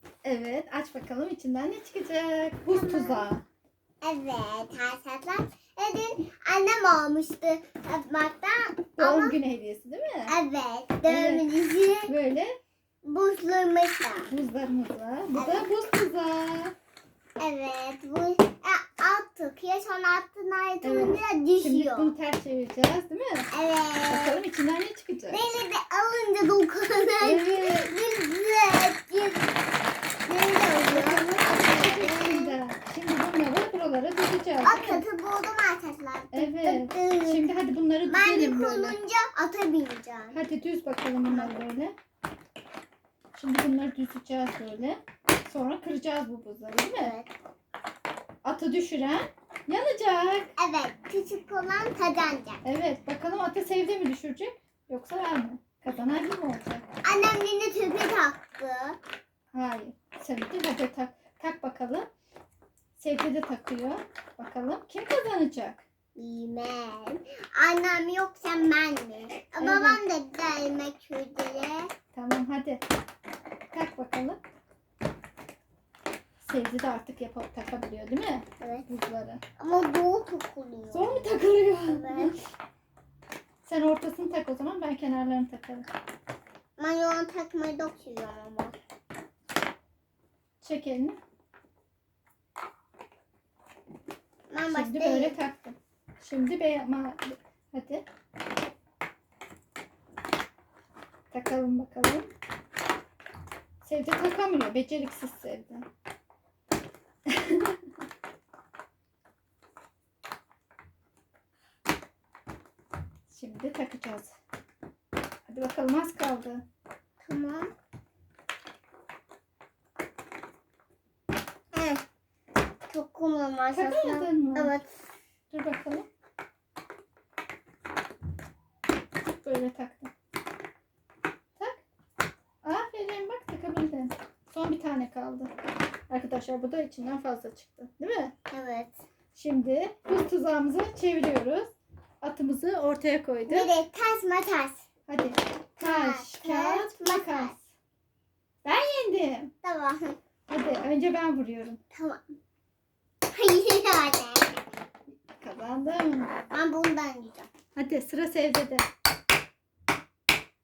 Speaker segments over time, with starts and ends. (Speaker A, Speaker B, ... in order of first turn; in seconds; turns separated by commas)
Speaker A: 0.2-3.4, Speaker B: 2.6-3.3, Speaker B: 4.0-9.4, Speaker A: 9.0-10.3, Speaker B: 10.3-12.1, Speaker A: 11.1-11.4, Speaker A: 12.1-12.5, Speaker B: 13.0-14.3, Speaker A: 14.3-16.7, Speaker B: 15.3-15.7, Speaker B: 17.4-22.1, Speaker A: 20.8-23.5, Speaker B: 23.5-24.4, Speaker A: 24.1-25.4, Speaker B: 25.3-29.6, Speaker A: 27.2-27.9, Speaker B: 30.2-32.6, Speaker A: 30.7-35.0, Speaker B: 34.6-37.5, Speaker A: 36.3-39.0, Speaker B: 38.0-40.4, Speaker A: 40.3-41.9, Speaker B: 41.3-41.5, Speaker A: 43.3-47.1, Speaker B: 46.9-47.3, Speaker A: 48.4-50.5, Speaker B: 50.6-52.6, Speaker A: 52.6-56.9, Speaker B: 57.0-59.0, Speaker A: 59.5-62.1, Speaker A: 63.0-65.8, Speaker B: 66.1-71.9, Speaker A: 69.6-70.0, Speaker A: 72.1-72.8, Speaker A: 73.7-74.4, Speaker A: 76.4-79.4, Speaker B: 78.6-78.9, Speaker B: 79.6-81.3, Speaker A: 80.9-82.4, Speaker B: 81.8-82.3, Speaker A: 83.6-85.9, Speaker B: 86.8-88.8, Speaker A: 90.6-91.2, Speaker B: 94.5-95.4, Speaker A: 94.7-98.0, Speaker A: 101.3-102.3, Speaker A: 103.8-105.8, Speaker A: 107.2-107.8, Speaker A: 113.3-114.3, Speaker A: 115.5-116.6, Speaker B: 117.2-117.7, Speaker B: 121.7-122.0, Speaker B: 122.9-124.9, Speaker A: 123.7-124.7, Speaker A: 125.5-126.1, Speaker A: 129.4-130.1, Speaker A: 131.6-131.8, Speaker A: 132.6-135.5, Speaker A: 136.1-138.3, Speaker B: 138.5-139.0, Speaker A: 139.3-141.7, Speaker A: 142.2-143.7, Speaker B: 143.4-144.8, Speaker A: 145.1-147.7, Speaker B: 145.8-147.5, Speaker A: 148.6-149.5, Speaker B: 149.6-150.2, Speaker A: 150.5-151.8, Speaker B: 151.9-152.2, Speaker B: 153.3-154.6, Speaker A: 155.4-156.3, Speaker B: 156.5-157.5, Speaker A: 157.7-158.9